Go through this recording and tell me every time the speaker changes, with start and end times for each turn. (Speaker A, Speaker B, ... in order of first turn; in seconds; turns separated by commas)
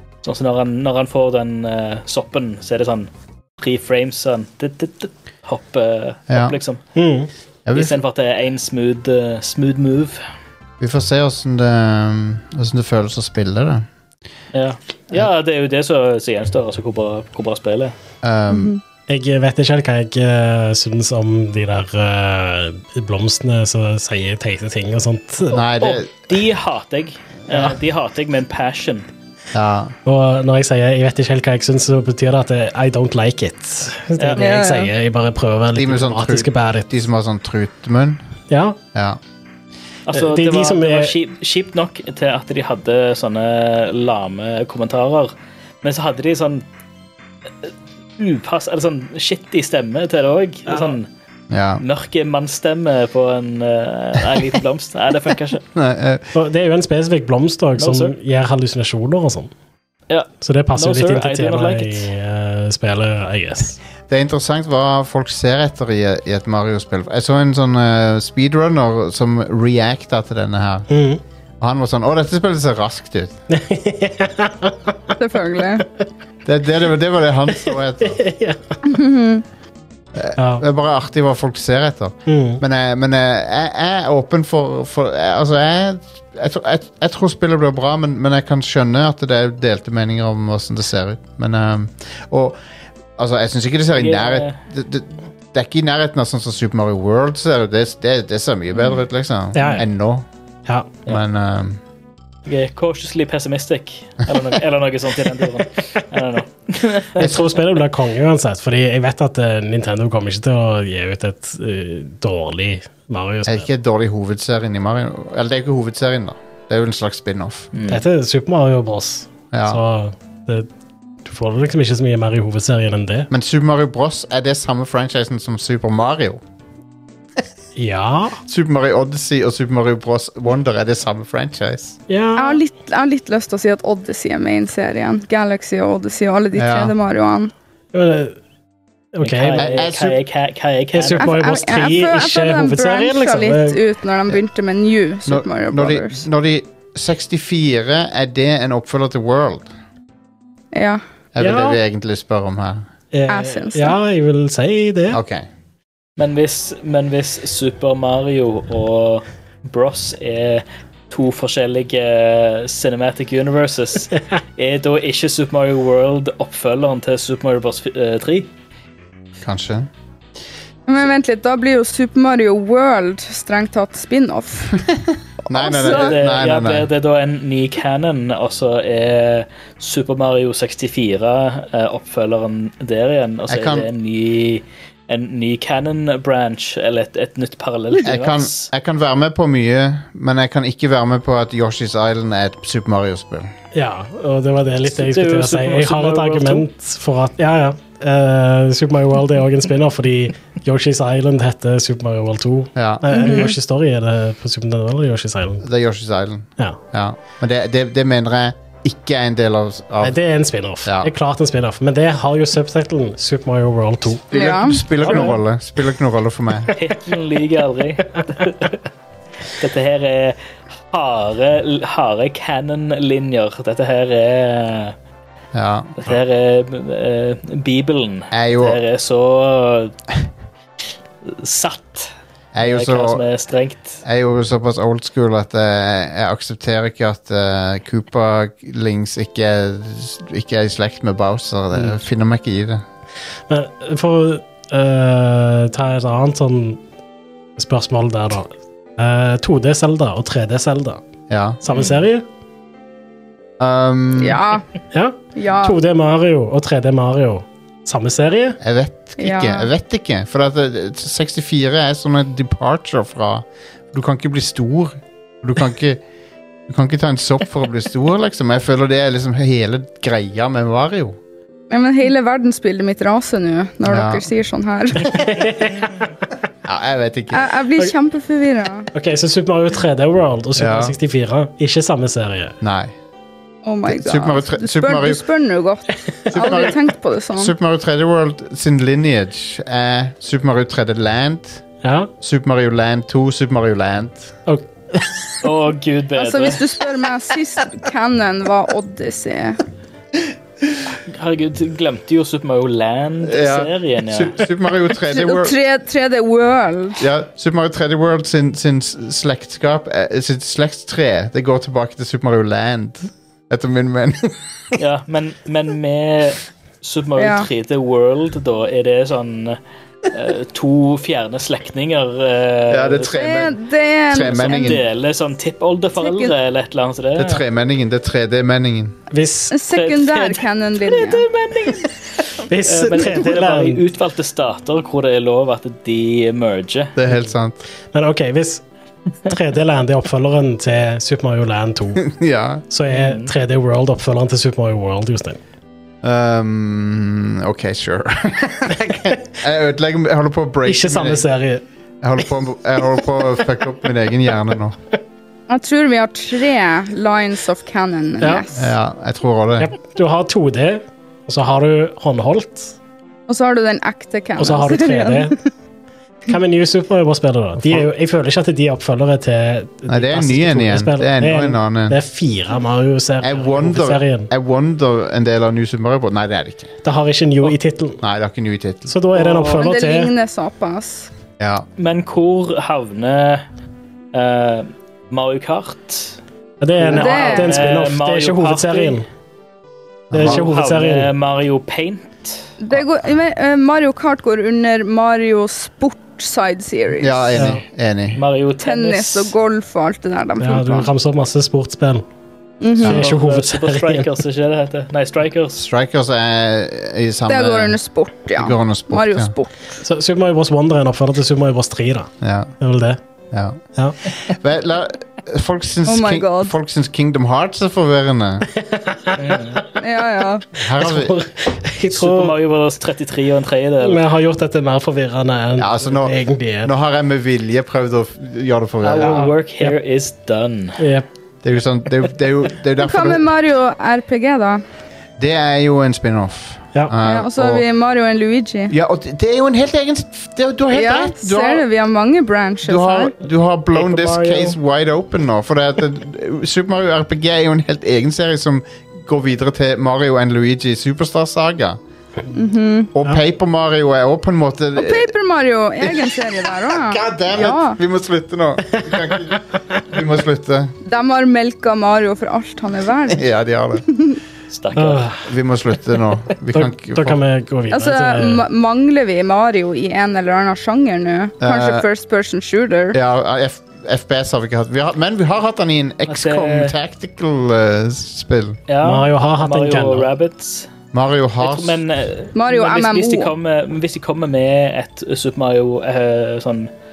Speaker A: 0.2-6.8, Speaker B: 6.3-6.6, Speaker C: 7.0-7.3, Speaker B: 7.7-8.0, Speaker A: 7.7-10.2, Speaker B: 10.8-13.8, Speaker A: 14.5-17.9, Speaker B: 18.2-18.7, Speaker D: 18.5-18.8, Speaker C: 19.1-25.6, Speaker B: 25.5-26.1, Speaker A: 25.8-29.1, Speaker B: 29.5-29.9, Speaker C: 30.1-36.9, Speaker D: 34.4-34.9, Speaker B: 35.7-38.2, Speaker C: 38.5-38.8, Speaker A: 40.1-45.3, Speaker C: 40.1-41.1, Speaker A: 45.8-46.6, Speaker A: 47.6-51.1, Speaker C: 50.7-50.9, Speaker B: 51.5-51.8, Speaker A: 51.8-55.6, Speaker B: 55.7-56.2, Speaker C: 56.3-59.5, Speaker A: 57.8-58.1, Speaker A: 60.1-62.1, Speaker C: 60.4-63.8, Speaker B: 64.1-70.9, Speaker C: 70.9-71.2, Speaker B: 71.6-73.3, Speaker C: 73.5-75.1, Speaker D: 75.2-75.8, Speaker B: 76.5-78.2, Speaker C: 77.5-78.6, Speaker D: 78.8-79.4, Speaker B: 80.1-92.6, Speaker C: 80.4-80.6, Speaker C: 82.3-82.6, Speaker B: 93.2-100.3, Speaker A: 93.9-94.6, Speaker C: 99.5-99.8, Speaker C: 100.7-100.9, Speaker B: 101.1-101.8, Speaker A: 102.5-107.5, Speaker C: 107.2-113.6, Speaker B: 113.5-117.7, Speaker A: 117.7-118.0, Speaker C: 117.9-120.7, Speaker B: 119.5-119.8, Speaker C: 121.2-123.3, Speaker B: 123.3-126.4, Speaker C: 127.8-128.4, Speaker B: 128.5-132.0, Speaker C: 132.1-132.6, Speaker D: 132.3-137.5, Speaker B: 136.5-136.9, Speaker C: 137.9-138.4, Speaker C: 139.1-139.8, Speaker A: 139.2-141.3, Speaker B: 139.6-140.2, Speaker C: 140.9-143.8, Speaker D: 141.2-146.2, Speaker B: 145.2-149.7, Speaker D: 150.7-151.0, Speaker B: 151.3-152.9, Speaker C: 151.4-151.8, Speaker C: 153.1-155.2, Speaker D: 153.3-154.0, Speaker B: 155.1-155.4, Speaker A: 156.2-168.5, Speaker B: 169.4-169.9, Speaker D: 170.9-174.8, Speaker B: 174.9-176.9, Speaker D: 175.5-176.1, Speaker A: 175.8-188.7, Speaker B: 183.5-183.9, Speaker B: 188.0-193.5, Speaker C: 193.7-205.6, Speaker A: 194.9-196.7, Speaker B: 202.8-203.0, Speaker D: 203.1-203.5, Speaker B: 205.6-210.2, Speaker C: 210.0-214.3, Speaker B: 210.8-211.1, Speaker B: 214.3-216.7, Speaker D: 214.3-215.2, Speaker C: 215.0-215.3, Speaker A: 216.8-218.8, Speaker A: 219.6-220.4, Speaker A: 220.9-224.9, Speaker B: 225.5-226.0, Speaker A: 226.0-229.9, Speaker B: 228.3-228.8, Speaker A: 231.2-234.0, Speaker B: 232.5-233.2, Speaker B: 234.0-242.8, Speaker C: 243.5-246.8, Speaker C: 247.6-251.0, Speaker B: 251.3-251.6, Speaker C: 251.6-252.2, Speaker A: 251.7-252.0, Speaker B: 253.6-254.4, Speaker D: 254.2-254.6, Speaker C: 254.9-258.6, Speaker D: 255.3-255.8, Speaker B: 258.6-266.0, Speaker D: 259.2-259.7, Speaker B: 266.7-271.2, Speaker D: 271.7-275.4, Speaker B: 273.8-274.3, Speaker C: 275.1-276.0, Speaker B: 276.6-277.5, Speaker D: 277.3-278.9, Speaker C: 278.9-282.6, Speaker B: 280.6-280.9, Speaker B: 282.6-282.9, Speaker D: 283.6-287.5, Speaker B: 283.9-285.2, Speaker B: 286.3-286.8, Speaker B: 287.3-291.6, Speaker C: 291.8-292.1, Speaker B: 292.2-294.4, Speaker A: 295.4-296.6, Speaker D: 296.2-299.6, Speaker A: 301.1-304.4, Speaker B: 303.2-305.5, Speaker D: 305.1-307.0, Speaker B: 307.0-314.8, Speaker A: 314.8-323.2, Speaker D: 317.2-317.5, Speaker B: 322.7-323.6, Speaker D: 323.1-324.8, Speaker B: 324.1-324.8, Speaker A: 324.2-327.4, Speaker D: 326.0-326.3, Speaker B: 327.1-329.0, Speaker C: 329.1-329.5, Speaker D: 329.5-331.3, Speaker A: 329.7-331.9, Speaker C: 332.4-333.8, Speaker A: 332.6-336.9, Speaker B: 336.9-337.6, Speaker C: 337.9-338.6, Speaker C: 339.3-342.0, Speaker B: 342.0-342.6, Speaker C: 342.7-345.4, Speaker A: 342.9-343.3, Speaker B: 346.0-351.2, Speaker C: 350.6-351.6, Speaker B: 352.0-354.8, Speaker D: 355.5-358.7, Speaker B: 358.5-359.7, Speaker C: 359.6-362.7, Speaker D: 363.3-365.3, Speaker C: 364.4-365.4, Speaker C: 366.3-374.3, Speaker B: 369.9-372.0, Speaker B: 373.2-376.8, Speaker C: 376.8-378.0, Speaker B: 378.0-378.9, Speaker C: 378.9-380.1, Speaker A: 379.1-379.6, Speaker D: 379.6-381.1, Speaker B: 381.4-381.7, Speaker A: 381.8-383.4, Speaker A: 384.1-386.2, Speaker C: 386.6-389.1, Speaker A: 386.8-389.0, Speaker D: 386.9-387.6, Speaker B: 390.1-390.4, Speaker C: 390.1-391.1, Speaker A: 390.2-392.5, Speaker D: 392.6-397.4, Speaker B: 397.0-398.2, Speaker C: 397.3-397.6, Speaker A: 398.1-399.3, Speaker D: 398.6-400.9, Speaker C: 400.4-402.0, Speaker D: 402.6-403.0, Speaker C: 402.8-404.1, Speaker A: 402.9-405.6, Speaker B: 405.5-407.8, Speaker D: 407.3-409.5, Speaker B: 408.3-409.3, Speaker C: 409.8-413.0, Speaker B: 412.2-412.5, Speaker B: 413.3-413.6, Speaker B: 414.1-418.5, Speaker D: 415.9-416.5, Speaker C: 418.5-419.7, Speaker A: 419.2-419.6, Speaker D: 419.8-420.4, Speaker B: 420.6-421.1, Speaker C: 420.6-422.4, Speaker A: 421.9-424.0, Speaker C: 423.8-426.7, Speaker B: 425.6-429.2, Speaker A: 428.8-430.8, Speaker C: 429.0-429.7, Speaker C: 430.8-431.1, Speaker B: 431.4-433.3, Speaker D: 432.8-434.6, Speaker B: 435.2-437.6, Speaker D: 437.0-438.7, Speaker B: 438.7-441.6, Speaker D: 440.7-443.1, Speaker B: 442.6-451.8, Speaker A: 443.7-444.5, Speaker D: 452.3-452.9, Speaker B: 452.9-455.1, Speaker D: 454.8-457.8, Speaker B: 455.8-460.7, Speaker D: 460.8-463.2, Speaker B: 463.1-463.8, Speaker A: 464.5-465.1, Speaker C: 464.7-465.3, Speaker B: 465.2-467.2, Speaker C: 466.5-468.4, Speaker D: 467.7-473.0, Speaker B: 471.4-471.9, Speaker B: 472.9-478.6, Speaker A: 476.1-476.7, Speaker A: 478.7-480.7, Speaker C: 478.8-480.1, Speaker B: 480.9-481.8, Speaker A: 481.4-486.7, Speaker D: 482.4-483.3